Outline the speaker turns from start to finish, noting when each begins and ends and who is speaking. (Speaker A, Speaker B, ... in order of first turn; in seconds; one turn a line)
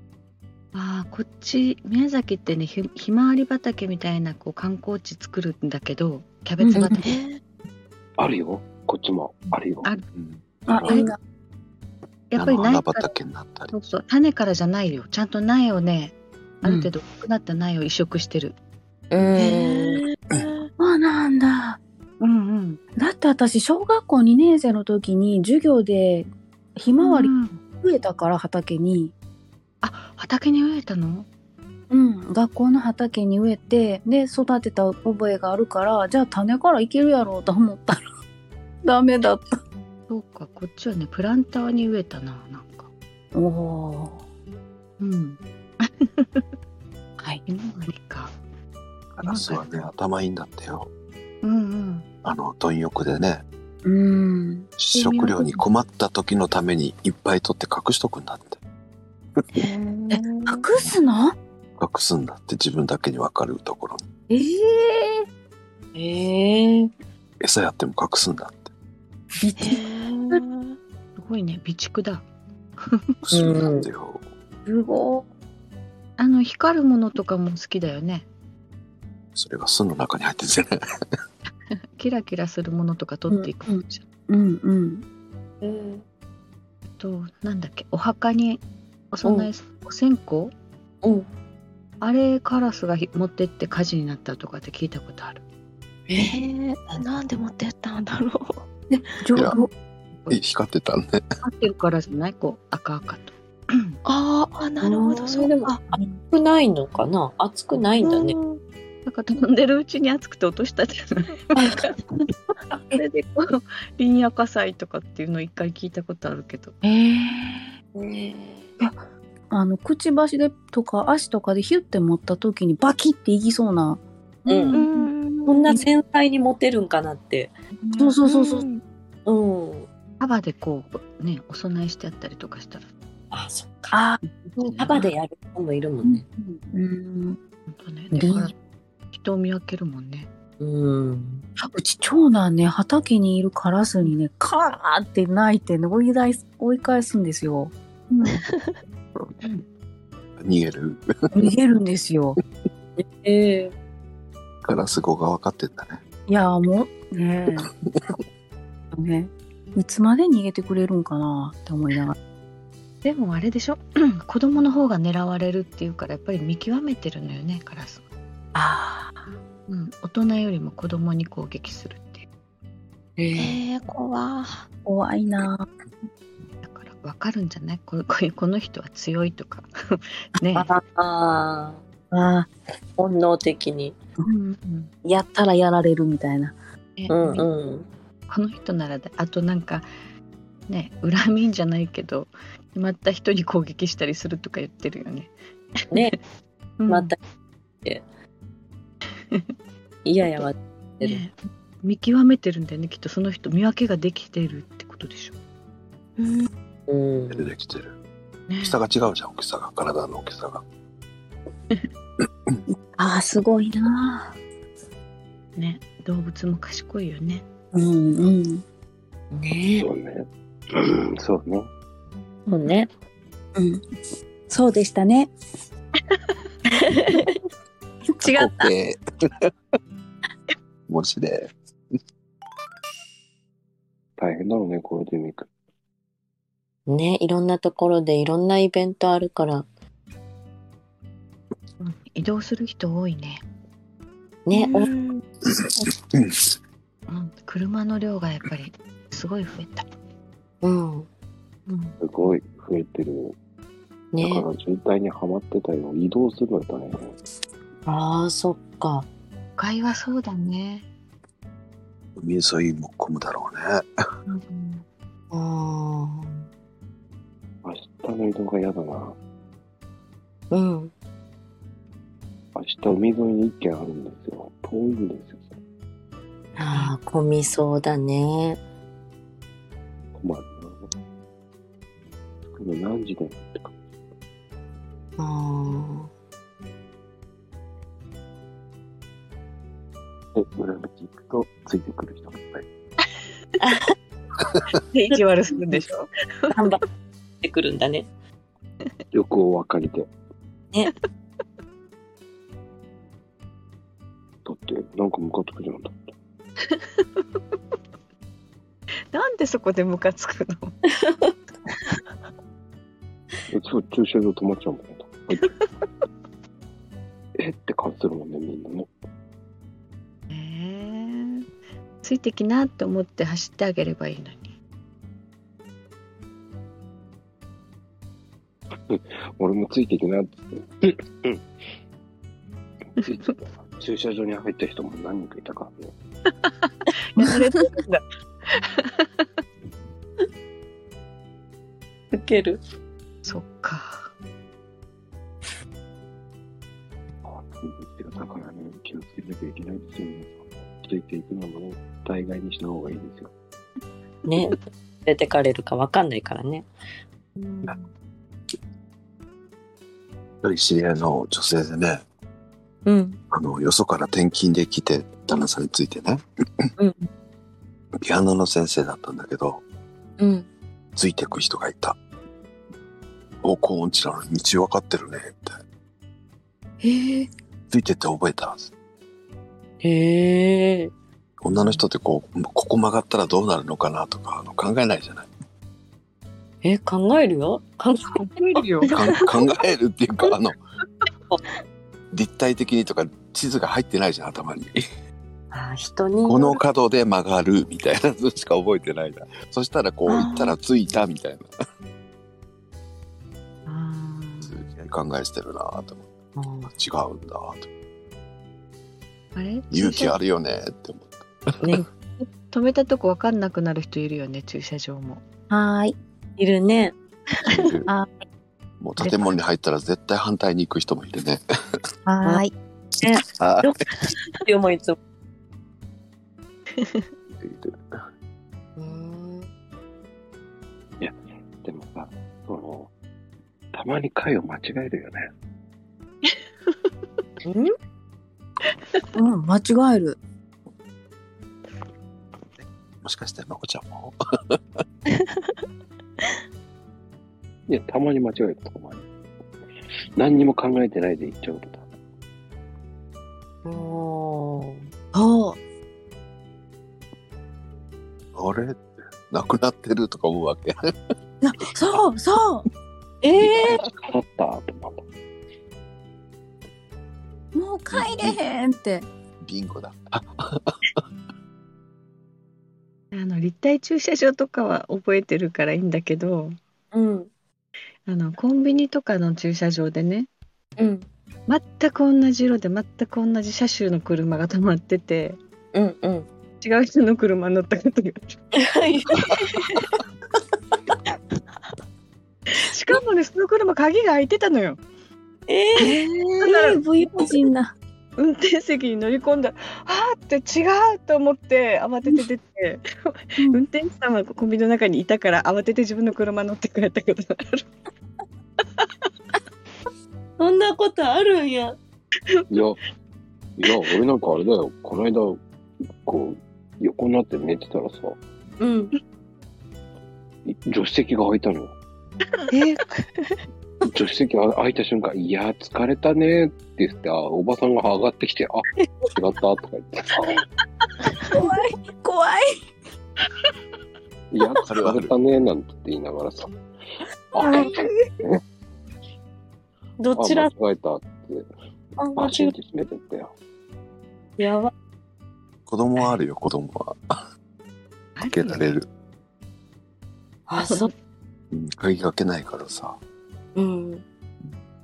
Speaker A: 0.7-7.0
Speaker B: 6.6-7.0
Speaker C: 6.8-7.4
Speaker D: 8.2-10.0
Speaker E: 10.1-11.1
Speaker B: 10.7-11.2
Speaker A: 12.3-13.1
Speaker E: 12.4-13.7
Speaker A: 13.7-18.6
Speaker F: 19.1-20.0
Speaker C: 19.4-20.6
Speaker B: 20.8-21.8
Speaker A: 22.2-22.8
Speaker B: 23.0-29.1
Speaker A: 27.0-27.6
Speaker A: 29.8-31.3
Speaker B: 31.9-38.0
Speaker B: 38.8-39.6
Speaker A: 40.1-42.9
Speaker B: 43.3-44.2
Speaker A: 45.0-46.4
Speaker A: 47.5-48.3
Speaker E: 49.2-50.9
Speaker A: 49.2-49.9
Speaker A: 51.4-52.1
Speaker E: 52.2-53.4
Speaker B: 53.8-54.7
Speaker E: 54.8-58.6
Speaker A: 54.9-55.6
Speaker C: 59.6-60.6
Speaker B: 60.5-61.4
Speaker E: 61.8-64.0
Speaker B: 64.3-65.2
Speaker F: 66.0-66.9
Speaker E: 67.4-68.7
Speaker B: 69.4-69.8
Speaker C: 69.6-70.8
Speaker A: 71.2-72.3
Speaker A: 72.8-73.1
Speaker E: 73.2-74.2
Speaker F: 73.3-73.9
Speaker B: 74.7-75.3
Speaker A: 76.2-78.3
Speaker E: 79.4-80.8
Speaker A: 82.0-84.0
Speaker B: 83.3-85.0
Speaker F: 85.6-86.0
Speaker A: 87.0-90.5
Speaker F: 89.2-89.5
Speaker F: 91.0-91.3
Speaker A: 92.0-95.4
Speaker F: 96.1-97.0
Speaker C: 96.2-98.6
Speaker B: 98.9-99.7
Speaker E: 100.3-101.2
Speaker A: 101.4-104.0
Speaker C: 104.0-105.7
Speaker F: 104.8-108.4
Speaker C: 108.0-108.6
Speaker A: 109.0-111.5
Speaker A: 112.9-116.8
Speaker B: 116.8-117.7
Speaker F: 118.0-118.7
Speaker B: 118.8-124.8
Speaker F: 124.5-124.8
Speaker A: 124.7-125.1
Speaker C: 124.7-125.8
Speaker F: 125.5-127.5
Speaker B: 128.0-128.7
Speaker C: 128.2-128.8
Speaker F: 129.3-129.9
Speaker A: 130.2-132.9
Speaker F: 133.3-134.0
Speaker B: 133.9-135.0
Speaker F: 134.6-136.2
Speaker A: 134.6-134.9
Speaker B: 136.0-137.4
Speaker A: 137.7-138.5
Speaker B: 138.1-138.5
Speaker A: 139.1-140.3
Speaker F: 140.6-141.4
Speaker B: 141.6-147.7
Speaker C: 148.2-148.8
Speaker E: 150.4-151.0
Speaker B: 151.3-152.4
Speaker F: 153.0-153.7
Speaker E: 154.7-156.0
Speaker B: 156.3-157.7
Speaker B: 158.9-162.2
Speaker A: 163.0-168.0
Speaker B: 168.6-169.2
Speaker A: 169.7-172.2
Speaker F: 173.2-173.6
Speaker C: 173.4-174.7
Speaker B: 174.8-175.7
Speaker A: 176.6-180.7
Speaker F: 180.6-181.8
Speaker B: 182.1-182.5
Speaker F: 183.0-183.9
Speaker B: 184.2-184.5
Speaker A: 184.6-184.9
Speaker B: 185.0-186.6
Speaker A: 187.0-187.5
Speaker F: 187.1-187.9
Speaker A: 188.3-189.9
Speaker A: 190.7-195.3
Speaker F: 195.9-196.2
Speaker A: 196.8-197.2
Speaker F: 196.9-197.2
Speaker F: 200.1-201.2
Speaker A: 201.0-205.3
Speaker C: 206.2-206.5
Speaker F: 206.9-207.4
Speaker E: 207.3-207.9
Speaker A: 208.5-208.8
Speaker E: 208.6-210.6
Speaker B: 212.7-214.3
Speaker A: 215.6-217.4
Speaker B: 217.7-218.6
Speaker F: 219.3-219.9
Speaker D: 219.7-221.7
Speaker F: 222.5-222.9
Speaker B: 223.6-223.8
Speaker B: 224.5-225.3
Speaker F: 226.7-227.3
Speaker B: 228.1-228.7
Speaker E: 228.2-229.5
Speaker E: 230.9-231.5
Speaker D: 234.2-235.5
Speaker F: 236.9-239.7
Speaker A: 241.8-243.4
Speaker F: 244.5-244.9
Speaker C: 244.5-245.2
Speaker E: 245.5-246.4
Speaker A: 247.1-249.9
Speaker F: 250.6-251.1
Speaker A: 251.7-252.0
Speaker D: 252.0-253.4
Speaker F: 254.1-254.5
Speaker D: 254.2-257.1
Speaker F: 257.9-259.1
Speaker A: 259.6-260.9
Speaker E: 262.2-263.9
Speaker A: 264.3-264.9
Speaker F: 265.3-266.4
Speaker D: 267.6-269.2
Speaker F: 270.5-270.9
Speaker D: 272.6-275.5
Speaker F: 276.6-278.6
Speaker D: 280.1-280.9
Speaker D: 282.5-283.7
Speaker F: 285.2-286.1
Speaker D: 290.4-292.7
Speaker F: 293.6-293.9
Speaker A: 294.9-296.6
Speaker F: 296.5-296.8
Speaker F: 297.4-298.1
Speaker D: 299.1-300.1
Speaker D: 304.4-306.1
Speaker A: 309.1-310.8
Speaker F: 311.0-311.3
Speaker D: 313.5-315.5
Speaker D: 317.4-318.9
Speaker A: 320.3-321.5
Speaker A: 322.0-324.5
Speaker D: 328.9-331.4
Speaker D: 333.0-335.9
Speaker A: 333.0-333.3
Speaker A: 337.1-338.9
Speaker F: 342.1-342.6
Speaker A: 343.2-344.1
Speaker D: 347.2-353.3
Speaker F: 354.3-356.7
Speaker A: 357.4-357.9
Speaker E: 360.4-362.0
Speaker F: 362.9-363.2
Speaker E: 363.3-366.2
Speaker F: 366.8-367.1
Speaker E: 368.0-369.6
Speaker F: 370.2-370.5
Speaker E: 370.9-372.0
Speaker E: 373.4-375.6
Speaker F: 376.8-377.3
Speaker E: 377.7-378.7
Speaker F: 379.8-380.9
Speaker E: 381.4-385.3
Speaker A: 381.5-381.9
Speaker F: 386.6-388.1
Speaker A: 388.2-388.9
Speaker E: 388.9-390.6
Speaker E: 392.1-394.8
Speaker F: 395.5-396.6
Speaker E: 396.2-401.5
Speaker F: 400.1-400.5
Speaker A: 403.7-404.6
Speaker E: 404.4-406.1
Speaker F: 406.4-406.7
Speaker E: 406.7-407.7
Speaker A: 409.4-410.1
Speaker E: 409.7-411.9
Speaker F: 411.6-411.9
Speaker A: 412.2-415.2
Speaker B: 415.5-416.0
Speaker F: 416.4-417.0
Speaker E: 417.5-417.9
Speaker E: 418.8-421.4
Speaker B: 422.1-422.5
Speaker F: 423.0-423.9
Speaker E: 423.3-423.7
Speaker F: 424.4-425.0
Speaker E: 427.3-427.8
Speaker F: 428.8-429.5
Speaker D: 431.0-432.9
Speaker D: 433.7-435.3
Speaker F: 437.4-437.7
Speaker B: 439.1-440.2
Speaker E: 443.0-444.6
Speaker C: 445.1-445.6
Speaker D: 447.7-449.1
Speaker D: 450.2-451.9
Speaker F: 453.6-454.8
Speaker B: 455.1-455.6
Speaker E: 458.4-460.8
Speaker B: 461.4-462.7
Speaker F: 463.2-463.8
Speaker D: 463.4-465.0
Speaker B: 467.5-469.1
Speaker E: 467.9-468.4
Speaker E: 469.4-471.0
Speaker A: 473.1-476.6
Speaker F: 476.9-477.3
Speaker A: 478.1-480.3
Speaker F: 480.8-481.1
Speaker A: 481.5-485.4
Speaker F: 485.7-486.3
Speaker A: 486.6-488.4
Speaker F: 488.6-489.4
Speaker A: 492.6-494.8
Speaker F: 495.5-495.9
Speaker A: 495.8-496.8
Speaker B: 496.4-497.7
Speaker A: 498.2-507.7
Speaker F: 510.4-511.8
Speaker D: 512.5-512.8
Speaker D: 513.6-515.4
Speaker D: 516.0-518.2
Speaker F: 518.6-518.9
Speaker D: 520.5-521.8
Speaker C: 522.5-523.3
Speaker D: 523.9-530.4
Speaker B: 531.3-532.6
Speaker D: 534.3-536.5
Speaker E: 534.6-535.1
Speaker D: 537.3-538.4
Speaker B: 537.4-538.1
Speaker F: 540.0-540.5
Speaker D: 540.1-541.5
Speaker F: 542.0-542.5
Speaker D: 542.2-543.3
Speaker F: 544.4-544.7
Speaker E: 545.7-547.2
Speaker A: 548.2-548.7
Speaker E: 548.3-548.9
Speaker F: 550.5-550.9
Speaker A: 550.6-550.9
Speaker E: 551.5-553.0
Speaker F: 553.6-554.0